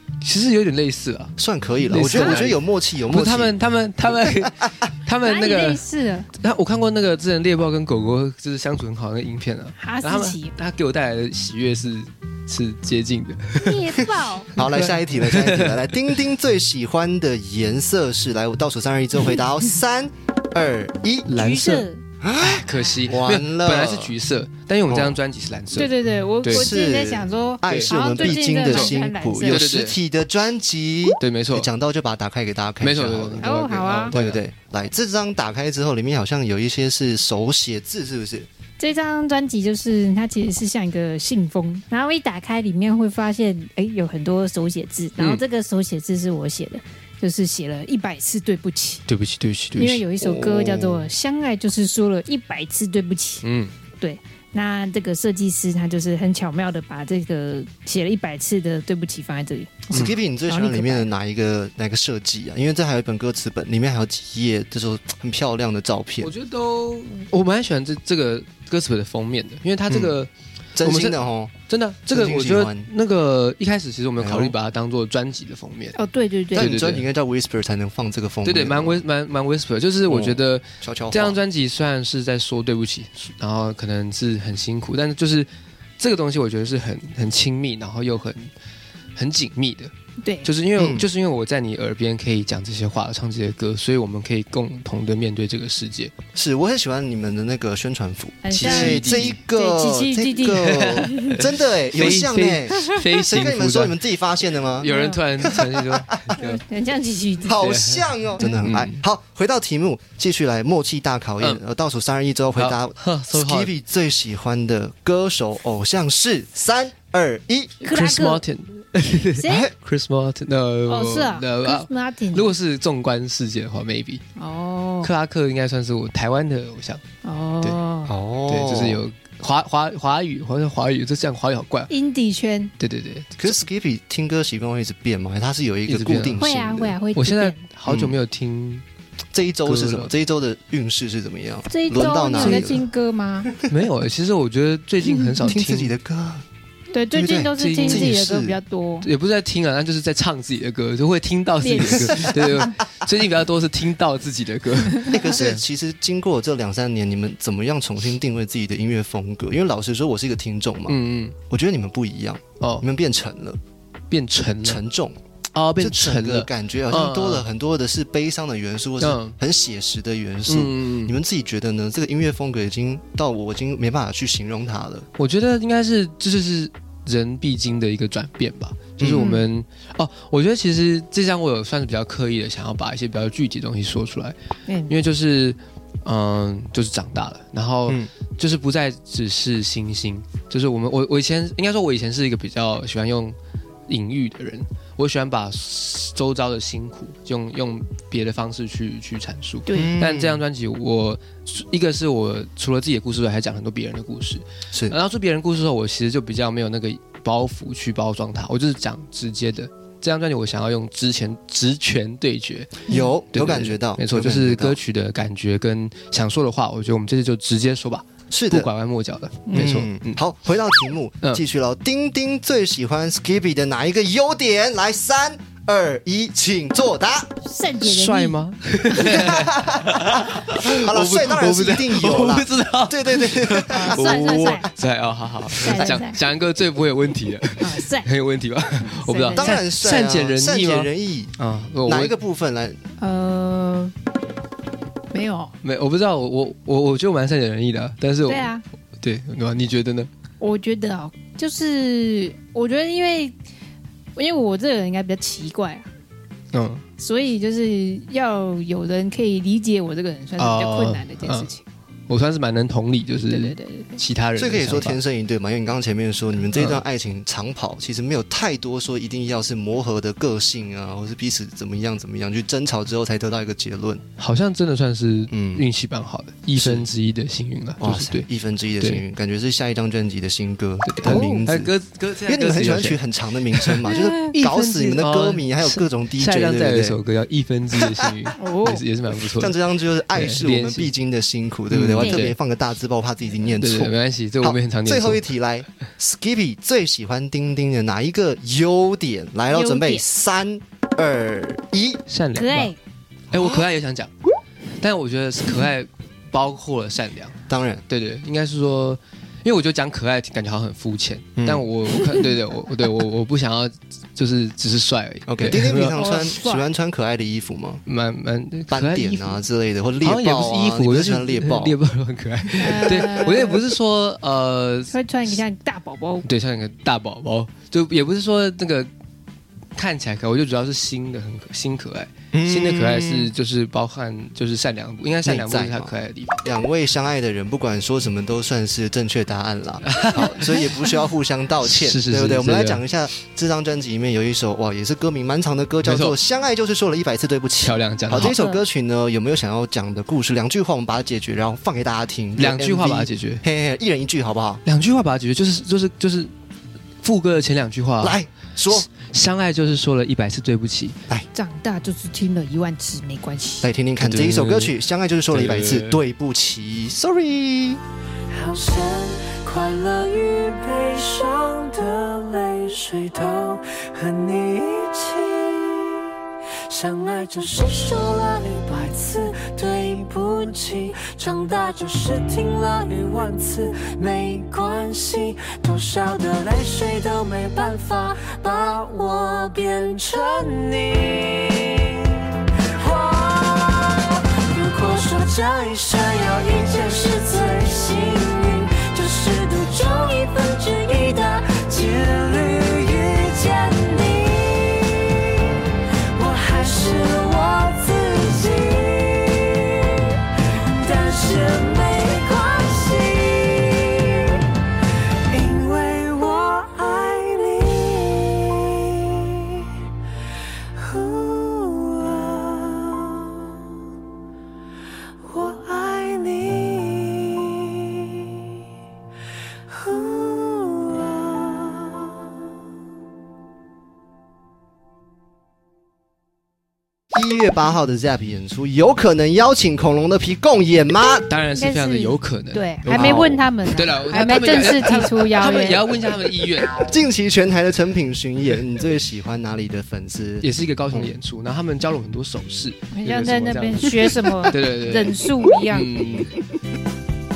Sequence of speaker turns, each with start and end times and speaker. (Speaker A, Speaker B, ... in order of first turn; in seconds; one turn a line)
Speaker A: 0.2-1.4
Speaker B: 1.4-3.5
Speaker A: 1.9-5.8
Speaker C: 2.1-2.4
Speaker B: 4.2-4.7
Speaker C: 5.2-6.3
Speaker A: 6.3-14.0
Speaker C: 9.8-10.5
Speaker C: 13.6-14.5
Speaker B: 14.5-21.3
Speaker A: 14.6-16.1
Speaker A: 21.3-21.9
Speaker C: 21.3-22.0
Speaker B: 22.2-24.1
Speaker A: 22.4-26.7
Speaker C: 22.6-23.1
Speaker B: 24.9-25.2
Speaker C: 25.8-29.7
Speaker B: 26.5-33.5
Speaker A: 27.7-30.0
Speaker A: 31.2-31.7
Speaker A: 32.8-34.4
Speaker C: 33.4-34.1
Speaker B: 34.1-38.5
Speaker C: 38.8-49.0
Speaker A: 45.2-45.4
Speaker A: 49.1-50.1
Speaker C: 49.8-53.4
Speaker B: 50.2-51.0
Speaker A: 53.4-53.7
Speaker C: 54.0-61.1
Speaker B: 59.9-66.3
Speaker A: 66.2-76.0
Speaker B: 69.9-70.2
Speaker B: 70.8-71.5
Speaker B: 72.1-72.9
Speaker B: 74.2-74.5
Speaker C: 76.0-76.7
Speaker A: 76.5-77.1
Speaker B: 76.5-79.0
Speaker A: 78.4-85.5
Speaker B: 80.1-81.4
Speaker A: 86.0-88.5
Speaker A: 89.2-89.9
Speaker C: 90.2-90.5
Speaker A: 90.4-96.2
Speaker B: 90.8-91.1
Speaker B: 96.3-104.9
Speaker C: 98.4-101.4
Speaker A: 98.5-99.4
Speaker A: 100.7-104.0
Speaker A: 104.8-106.6
Speaker C: 104.8-105.2
Speaker B: 105.4-106.3
Speaker C: 106.4-107.6
Speaker B: 107.5-117.8
Speaker A: 107.5-109.0
Speaker A: 112.5-113.7
Speaker C: 117.8-118.4
Speaker A: 117.8-124.2
Speaker C: 119.4-119.7
Speaker B: 119.4-119.7
Speaker C: 120.9-122.5
Speaker C: 124.4-125.1
Speaker A: 125.0-127.0
Speaker C: 127.2-128.1
Speaker B: 128.1-129.0
Speaker A: 128.5-131.9
Speaker C: 131.9-132.7
Speaker A: 132.8-133.6
Speaker B: 133.4-137.0
Speaker A: 135.9-136.4
Speaker C: 136.4-137.6
Speaker A: 137.1-138.8
Speaker B: 137.9-138.2
Speaker B: 139.3-142.8
Speaker A: 139.7-140.1
Speaker C: 141.7-143.5
Speaker A: 142.4-142.8
Speaker A: 143.7-145.9
Speaker C: 145.1-145.4
Speaker B: 145.5-146.4
Speaker C: 146.9-149.1
Speaker B: 147.1-148.6
Speaker A: 147.6-148.2
Speaker A: 149.0-155.6
Speaker C: 151.6-152.8
Speaker B: 155.1-163.6
Speaker A: 160.9-161.3
Speaker A: 162.6-162.9
Speaker A: 164.1-164.8
Speaker B: 164.6-165.2
Speaker A: 165.5-167.5
Speaker B: 165.8-175.1
Speaker A: 169.0-169.4
Speaker A: 170.5-171.2
Speaker A: 175.2-184.3
Speaker B: 179.0-179.3
Speaker C: 179.2-179.4
Speaker C: 184.7-184.9
Speaker A: 184.9-193.4
Speaker A: 193.9-220.2
Speaker C: 199.7-199.9
Speaker B: 199.7-200.4
Speaker B: 204.7-205.0
Speaker B: 212.9-214.8
Speaker B: 218.3-218.7
Speaker C: 219.5-219.7
Speaker B: 219.5-227.3
Speaker C: 227.4-228.4
Speaker A: 227.8-242.2
Speaker B: 229.1-234.4
Speaker C: 233.7-234.7
Speaker C: 235.5-236.2
Speaker B: 235.7-236.0
Speaker C: 237.6-238.1
Speaker C: 238.8-239.6
Speaker B: 239.4-241.3
Speaker B: 241.9-242.8
Speaker C: 243.0-243.9
Speaker C: 245.1-245.5
Speaker A: 245.6-250.1
Speaker C: 248.3-248.6
Speaker C: 250.4-253.3
Speaker C: 254.2-255.9
Speaker A: 256.5-256.8
Speaker C: 257.0-261.6
Speaker A: 260.4-261.5
Speaker A: 262.1-265.0
Speaker C: 263.3-264.0
Speaker B: 264.4-274.1
Speaker A: 266.5-266.8
Speaker A: 274.2-278.3
Speaker B: 275.3-275.6
Speaker B: 276.6-276.9
Speaker B: 277.8-281.7
Speaker A: 280.8-289.6
Speaker C: 281.0-281.5
Speaker B: 282.3-287.0
Speaker C: 288.4-288.8
Speaker B: 289.3-302.0
Speaker A: 290.1-290.9
Speaker A: 291.7-292.4
Speaker C: 292.0-292.2
Speaker A: 293.5-295.2
Speaker C: 299.5-300.0
Speaker A: 302.1-302.8
Speaker C: 302.4-302.8
Speaker A: 303.3-304.1
Speaker B: 303.3-303.6
Speaker A: 304.8-307.4
Speaker B: 307.5-307.8
Speaker A: 307.9-316.1
Speaker B: 311.4-311.7
Speaker B: 315.3-317.8
Speaker C: 315.9-316.7
Speaker A: 317.9-319.4
Speaker B: 318.7-321.8
Speaker A: 320.0-325.4
Speaker C: 322.6-323.6
Speaker C: 324.9-326.3
Speaker A: 326.2-328.9
Speaker A: 329.8-336.4
Speaker B: 332.3-333.3
Speaker B: 335.2-354.6
Speaker A: 339.9-340.8
Speaker A: 341.6-342.8
Speaker A: 345.8-346.1
Speaker A: 347.6-348.4
Speaker C: 348.2-348.6
Speaker A: 352.4-353.4
Speaker A: 354.6-356.3
Speaker A: 357.0-358.2
Speaker B: 358.0-358.9
Speaker A: 358.7-361.0
Speaker C: 361.3-363.7
Speaker B: 363.6-367.8
Speaker A: 364.0-364.8
Speaker A: 365.3-366.0
Speaker D: 368.3-376.1
Speaker D: 376.6-405.2
Speaker D: 406.1-414.4
Speaker D: 415.3-419.7
Speaker D: 420.7-423.4
Speaker D: 425.2-428.5
Speaker D: 429.7-432.1
Speaker B: 437.1-441.3
Speaker A: 441.3-447.0
Speaker C: 441.6-445.9
Speaker B: 442.9-443.3
Speaker B: 446.8-451.1
Speaker A: 450.4-456.3
Speaker C: 452.9-455.9